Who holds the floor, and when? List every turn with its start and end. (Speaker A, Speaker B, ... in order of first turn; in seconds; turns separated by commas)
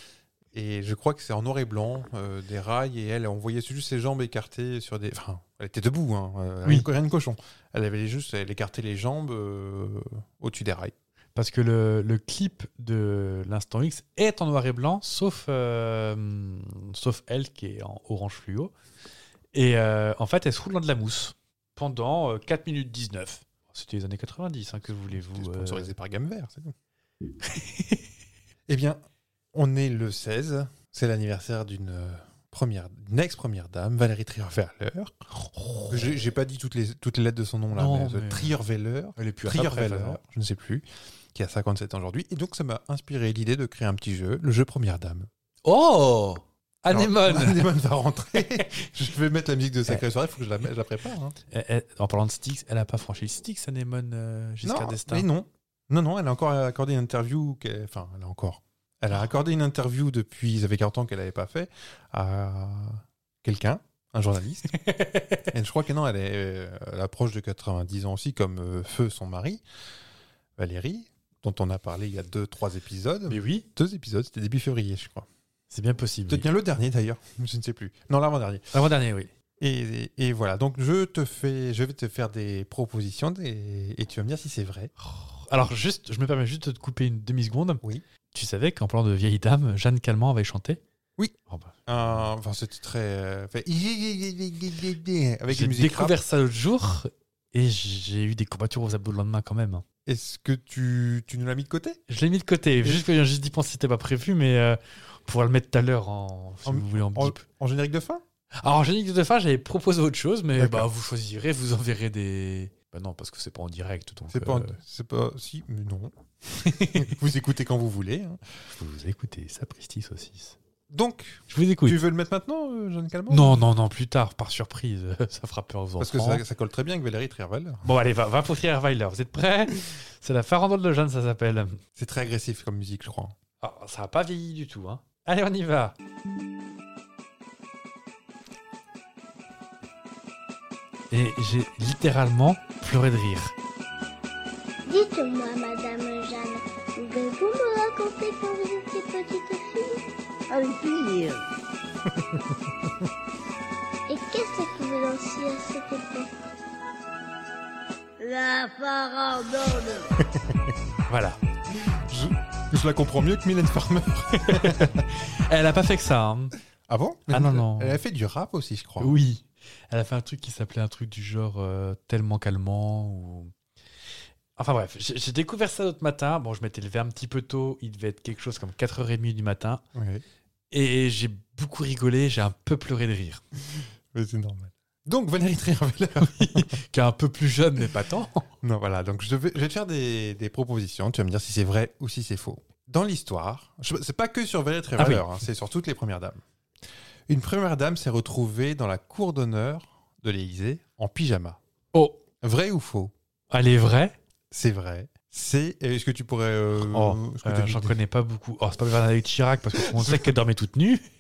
Speaker A: 0.5-10.9, Speaker B: 11.3-18.7, Speaker B: 19.5-25.9, Speaker A: 25.1-26.7, Speaker B: 27.4-28.1, Speaker A: 28.7-29.0, Speaker A: 29.5-35.2, Speaker B: 35.4-36.2, Speaker A: 35.9-45.3, Speaker B: 37.7-38.6, Speaker B: 39.2-40.2, Speaker B: 45.6-47.7, Speaker A: 46.9-51.4, Speaker B: 51.5-55.3, Speaker A: 54.6-64.8, Speaker B: 64.7-65.5, Speaker A: 65.5-69.6, Speaker A: 70.6-75.3, Speaker B: 73.3-73.7, Speaker B: 75.7-76.5, Speaker A: 76.3-78.7, Speaker B: 78.7-79.3, Speaker A: 79.6-84.9, Speaker B: 85.0-90.8, Speaker B: 91.5-92.2, Speaker A: 91.9-96.2, Speaker B: 95.5-99.8, Speaker A: 100.1-102.0, Speaker B: 102.1-107.4, Speaker A: 106.7-108.2, Speaker B: 108.6-114.8, Speaker A: 110.6-110.9, Speaker A: 114.3-118.4, Speaker B: 116.7-117.1, Speaker B: 118.8-120.6, Speaker A: 120.9-123.7, Speaker B: 121.5-122.0, Speaker B: 123.3-126.4, Speaker A: 126.0-127.8, Speaker B: 127.8-131.8, Speaker A: 132.0-133.3, Speaker B: 133.6-136.0, Speaker B: 141.1-143.5, Speaker C: 144.9-151.4, Speaker C: 154.1-156.3, Speaker C: 158.2-160.1, Speaker B: 161.1-161.4, Speaker A: 161.8-165.1, Speaker B: 164.4-166.5, Speaker A: 166.9-169.2, Speaker B: 167.3-168.0, Speaker B: 169.0-173.5, Speaker B: 174.6-179.8, Speaker A: 179.9-180.2, Speaker B: 180.7-183.4, Speaker A: 184.1-186.8, Speaker B: 186.2-188.5, Speaker A: 188.6-196.4, Speaker B: 195.0-195.2, Speaker A: 197.3-201.6, Speaker B: 201.9-202.2, Speaker A: 202.4-203.1, Speaker B: 203.5-204.2, Speaker A: 204.5-208.0, Speaker B: 206.8-211.0, Speaker A: 209.7-210.3